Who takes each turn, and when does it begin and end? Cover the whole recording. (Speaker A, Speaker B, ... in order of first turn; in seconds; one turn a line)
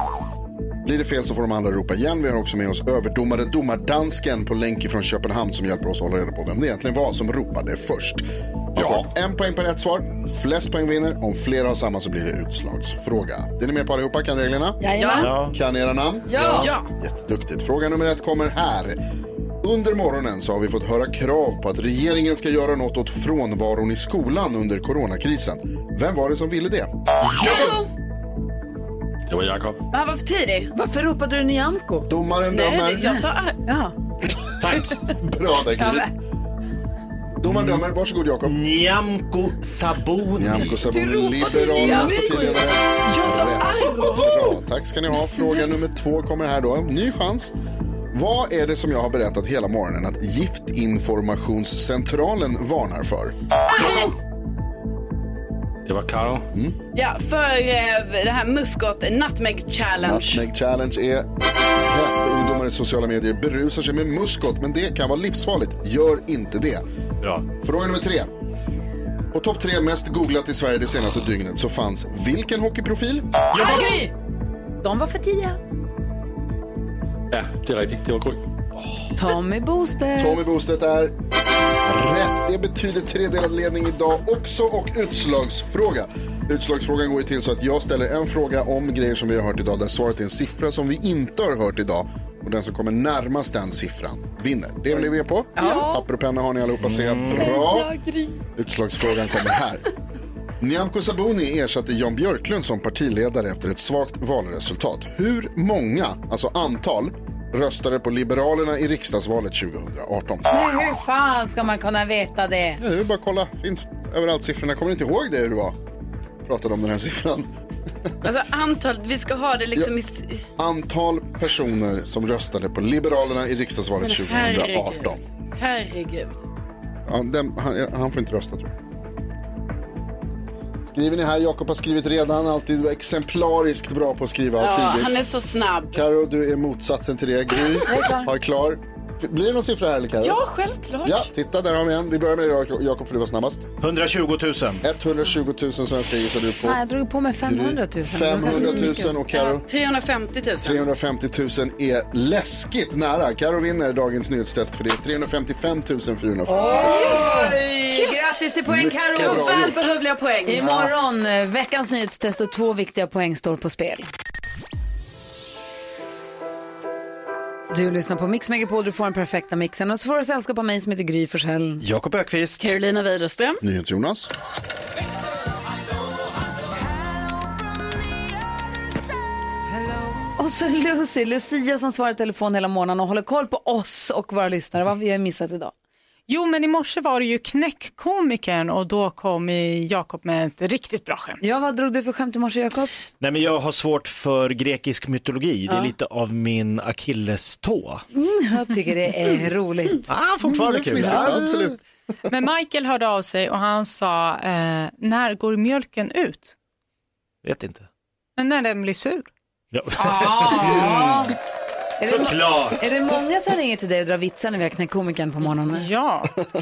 Speaker A: 0.8-19.0
Speaker B: 14.8-15.3
Speaker C: 15.0-15.3
Speaker D: 15.2-15.5
Speaker B: 16.3-16.7
Speaker C: 16.6-16.9
Speaker A: 19.6-26.9
Speaker C: 27.4-27.9
Speaker E: 29.3-29.8
Speaker C: 29.9-30.7
Speaker B: 30.7-32.1
Speaker A: 32.1-33.2
Speaker C: 32.5-33.6
Speaker B: 33.1-33.9
Speaker D: 34.6-34.9
Speaker A: 34.6-36.1
Speaker B: 35.8-36.1
Speaker A: 37.4-38.6
Speaker D: 37.5-37.8
Speaker D: 38.4-40.8
Speaker A: 40.4-47.5
Speaker B: 40.9-42.6
Speaker C: 43.0-44.5
Speaker A: 48.1-53.4
Speaker C: 53.7-54.1
Speaker E: 55.9-56.5
Speaker C: 56.9-60.4
Speaker A: 60.0-66.8
Speaker A: 67.6-68.3
Speaker A: 69.3-73.2
Speaker B: 73.5-74.1
Speaker B: 74.8-75.6
Speaker E: 77.3-78.4
Speaker B: 79.2-80.5
Speaker A: 80.2-81.1
Speaker A: 81.8-98.0
Speaker B: 95.6-96.0
Speaker D: 96.9-97.5
Speaker B: 97.3-98.3
Speaker A: 98.5-99.8
Speaker A: 100.6-110.5
Speaker B: 110.5-112.8
Speaker A: 112.8-115.8
Speaker A: 116.4-117.5
Speaker C: 118.2-120.5
Speaker A: 120.6-125.2
Speaker C: 124.0-126.4
Speaker A: 127.1-128.7
Speaker A: 130.8-135.2
Speaker C: 134.6-136.0
Speaker A: 135.9-140.4
Speaker B: 137.9-138.3
Speaker C: 140.2-141.3
Speaker A: 141.0-143.7
Speaker D: 143.8-144.8
Speaker A: 144.8-146.8
Speaker B: 146.6-149.1
Speaker A: 147.4-149.6
Speaker C: 148.4-150.8
Speaker A: 150.6-157.5
Speaker B: 156.5-159.6
Speaker C: 156.6-158.3
Speaker A: 158.7-159.8
Speaker C: 159.1-160.9
Speaker B: 160.4-164.1
Speaker B: 167.7-171.8
Speaker D: 171.8-172.7
Speaker C: 172.6-173.6
Speaker A: 173.6-174.3
Speaker B: 180.4-185.7
Speaker F: 186.3-191.4
Speaker B: 191.4-192.9
Speaker D: 193.2-198.0
Speaker B: 198.1-200.1
Speaker D: 200.1-201.6
Speaker A: 200.5-201.8
Speaker F: 202.3-206.5
Speaker D: 207.4-207.9
Speaker F: 208.4-209.3
Speaker D: 209.7-211.3
Speaker B: 209.9-211.3
Speaker B: 212.0-215.8
Speaker D: 212.0-212.8
Speaker F: 215.7-216.3